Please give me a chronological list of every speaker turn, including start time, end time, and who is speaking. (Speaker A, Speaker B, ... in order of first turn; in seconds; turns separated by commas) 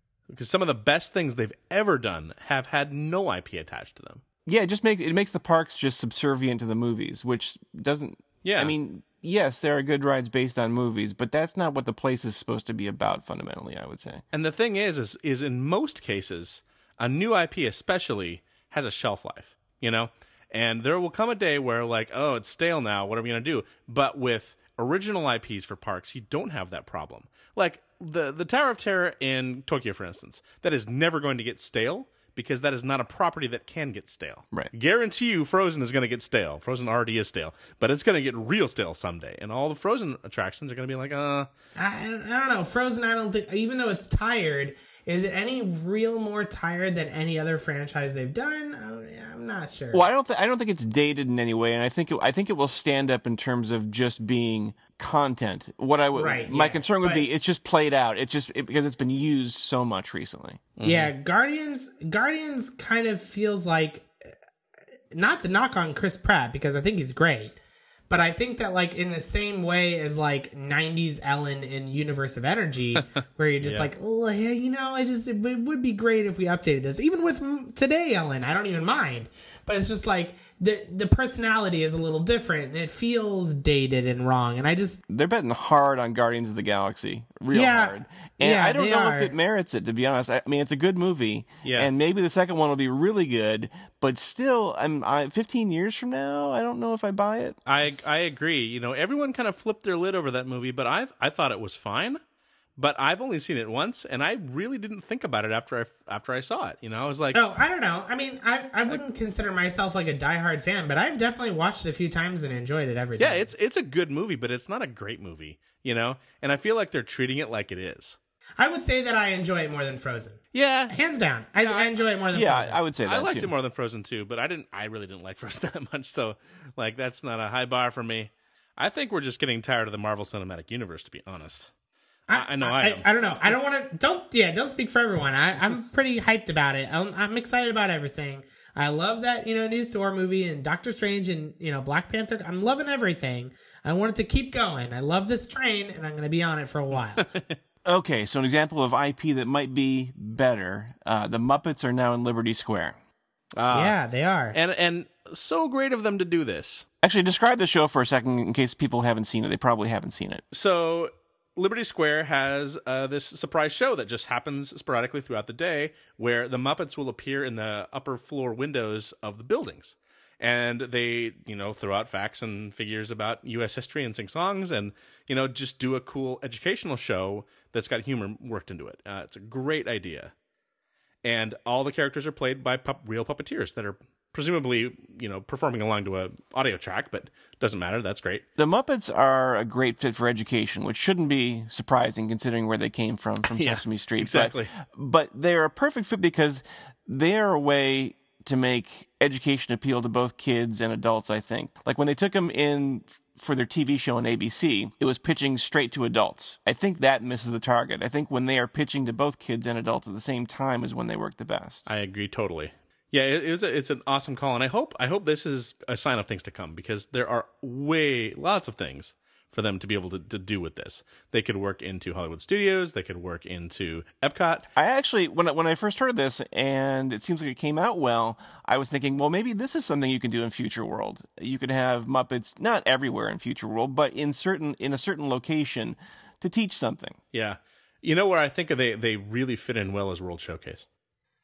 Speaker A: 0.3-4.2, Speaker B: 4.5-14.2, Speaker A: 8.4-8.7, Speaker A: 14.3-41.5, Speaker C: 41.7-50.1, Speaker B: 49.9-60.7, Speaker C: 56.1-57.3, Speaker A: 60.8-61.1, Speaker C: 60.8-64.1, Speaker C: 65.1-67.6, Speaker C: 68.1-85.0, Speaker A: 73.6-73.9, Speaker B: 85.1-97.6, Speaker C: 87.5-89.3, Speaker A: 91.6-91.9, Speaker A: 97.7-102.2, Speaker A: 102.8-107.4, Speaker C: 107.3-113.5, Speaker A: 113.2-118.2, Speaker C: 118.6-122.8, Speaker A: 120.5-121.0, Speaker A: 121.6-122.0, Speaker B: 122.3-123.5, Speaker A: 123.0-131.7, Speaker C: 132.3-147.2, Speaker A: 132.3-133.5, Speaker A: 146.9-147.6, Speaker B: 147.8-152.9, Speaker A: 153.6-154.0, Speaker C: 153.7-154.6, Speaker A: 154.5-156.8, Speaker B: 157.0-160.4, Speaker A: 160.5-180.3, Speaker A: 181.2-188.4, Speaker B: 188.6-211.9, Speaker A: 193.5-194.7, Speaker A: 211.9-224.7, Speaker B: 224.7-237.2, Speaker A: 237.3-240.9